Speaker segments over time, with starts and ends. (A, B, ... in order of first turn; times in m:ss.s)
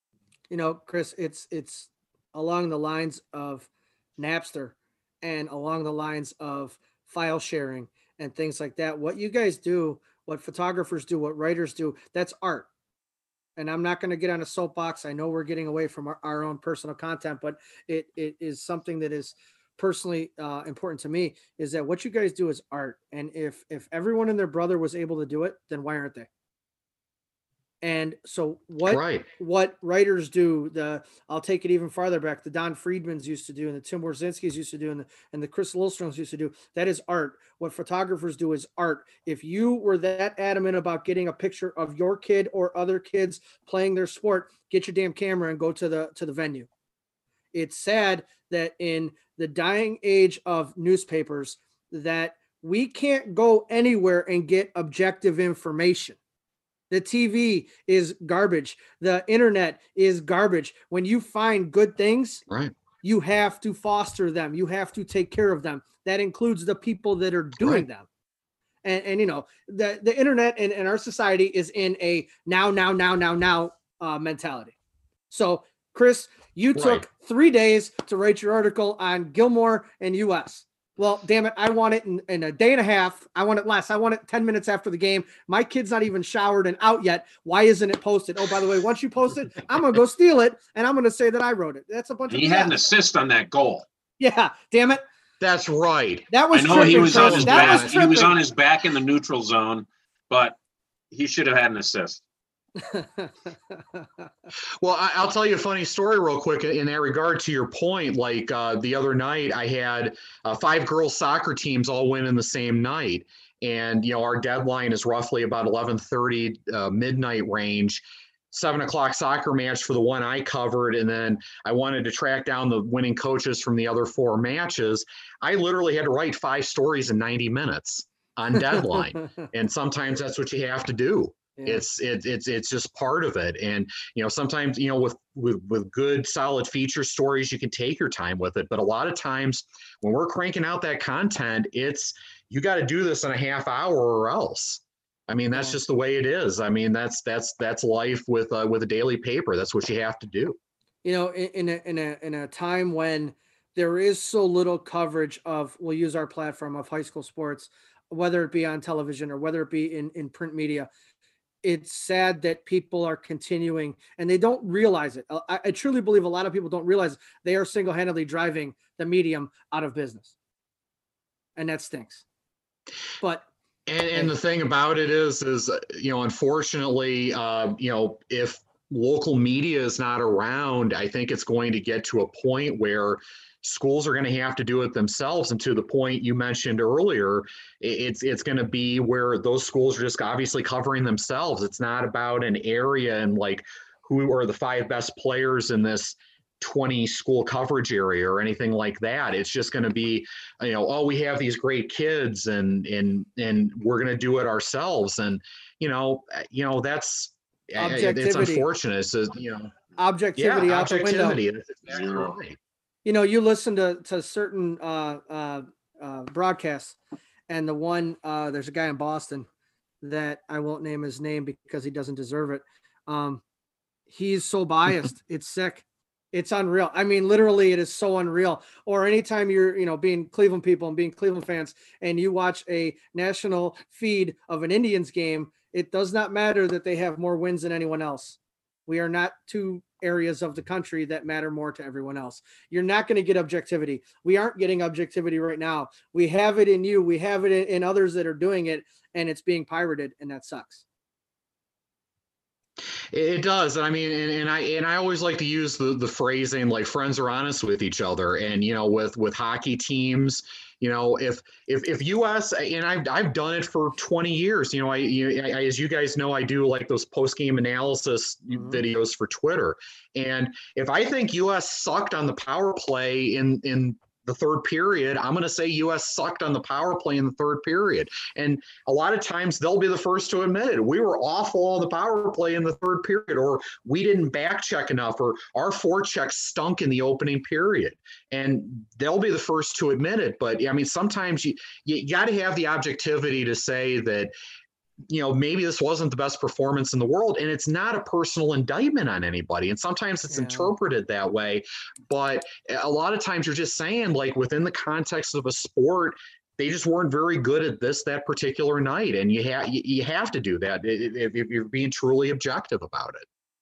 0:00.5-0:12.7 A
0:13.6-0:26.3 A
0:27.8-0:46.7 A
0:28.8-0:29.2 B
0:47.5-0:56.2 A
0:56.9-1:02.4 A
1:02.5-1:02.7 B
1:03.0-1:08.1 A
1:08.8-1:14.7 A
1:15.3-1:32.7 A
1:16.7-1:17.0 B
1:32.3-1:33.8 C
1:34.2-1:35.0 A
1:35.4-1:38.2 B
1:36.3-1:38.3 A
1:36.5-1:40.6 C
1:41.1-1:42.2 C
1:42.8-1:44.0 A
1:44.8-2:30.6 B
2:11.6-2:11.8 A
2:25.5-2:25.8 A
2:31.0-2:40.9 A
2:41.6-2:50.3 A
2:51.6-2:52.2 A
2:53.2-2:53.4 A
2:53.9-3:29.7 B
3:27.8-3:28.6 A
3:30.0-3:31.4 A
3:30.4-3:32.6 B
3:31.9-3:32.4 C
3:33.0-3:37.0 A
3:37.5-3:39.5 A
3:40.0-3:43.4 A
3:44.1-4:10.8 A
4:13.1-4:54.3 B
4:55.1-5:13.2 B
5:00.3-5:00.7 A